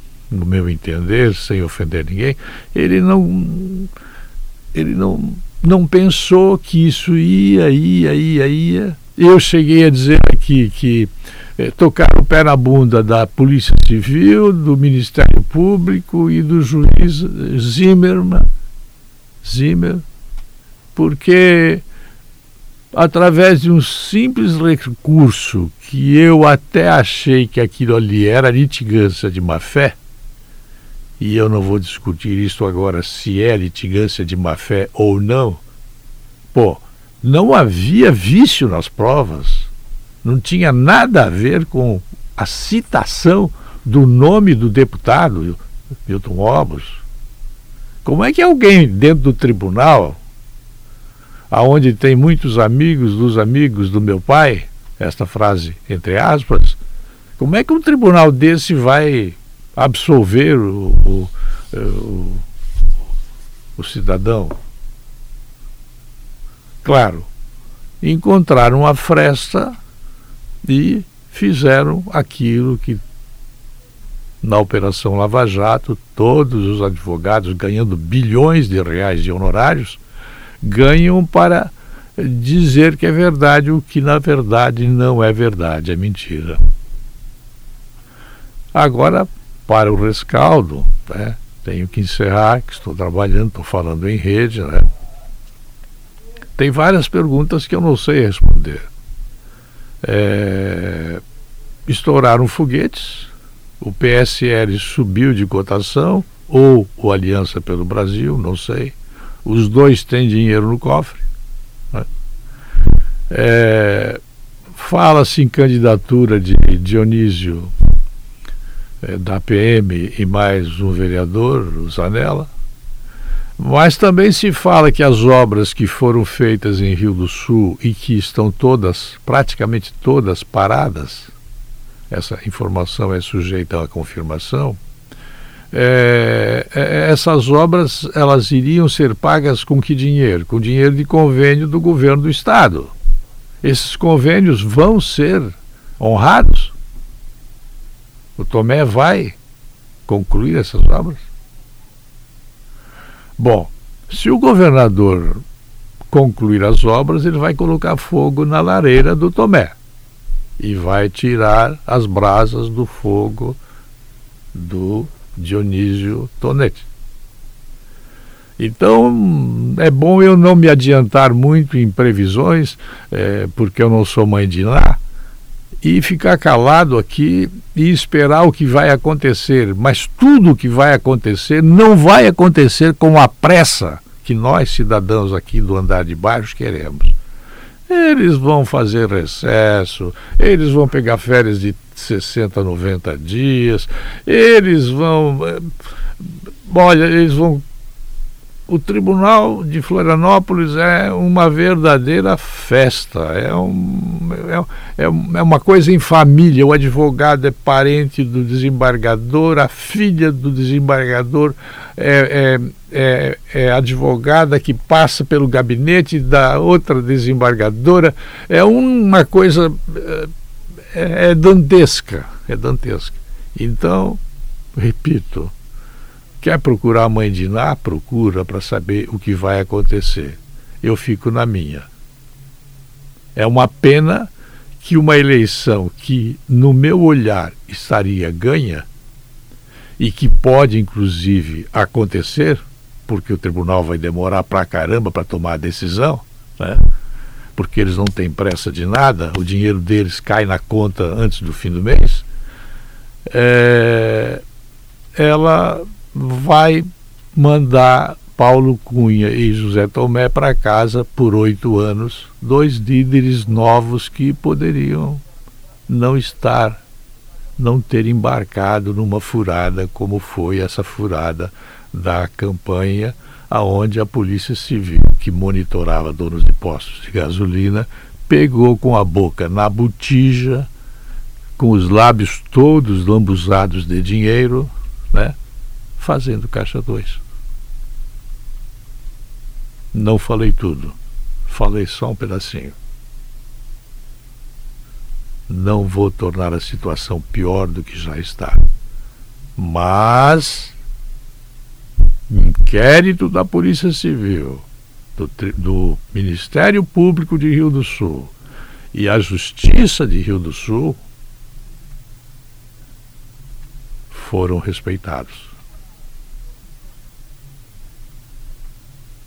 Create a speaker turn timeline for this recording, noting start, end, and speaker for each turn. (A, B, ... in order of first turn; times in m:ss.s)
0:00.3-0:03.9 A
0:04.7-0:18.5 A
0:19.4-0:20.0 A
0:21.0-0:21.8 A
0:22.9-0:30.0 A
0:31.2-0:35.6 A
0:36.5-0:39.7 A
0:40.2-0:47.0 A
0:48.0-0:50.2 A
0:51.5-0:56.8 A
0:57.4-1:02.5 A
1:03.8-1:04.6 A
1:06.8-1:07.3 A
1:08.0-1:09.8 A
1:10.6-1:13.0 A
1:14.4-1:20.0 A
1:20.6-1:26.6 A
1:28.7-1:34.9 A
1:36.6-1:38.9 A
1:40.0-1:41.2 A
1:41.9-1:51.3 A
1:53.3-1:54.2 A
1:54.7-1:57.7 A
1:59.0-2:02.5 A
2:03.6-2:11.3 A
2:12.1-2:14.8 A
2:15.7-2:22.9 A
2:23.6-2:26.8 A
2:28.4-2:29.4 A
2:30.1-2:31.3 A
2:33.4-2:35.4 A
2:36.1-2:39.8 A
2:40.6-2:43.6 A
2:44.5-2:46.9 A
2:48.6-2:55.0 A
2:55.8-3:07.1 A
3:07.9-3:15.7 A
3:16.2-3:17.6 A
3:18.7-3:40.3 A
3:40.9-3:44.2 A
3:44.8-3:45.5 A
3:46.4-3:51.9 A
3:53.4-3:58.9 A
4:00.0-4:06.9 A
4:07.6-4:12.3 A
4:13.3-4:14.4 A
4:15.2-4:25.2 A
4:25.9-4:26.8 A
4:27.6-4:40.7 A
4:41.6-4:45.4 A
4:46.0-4:47.2 A
4:49.9-4:52.8 A
4:55.5-4:58.6 A
4:59.6-5:00.8 A
5:02.3-5:08.4 A
5:08.9-5:11.0 A
5:14.1-5:15.5 A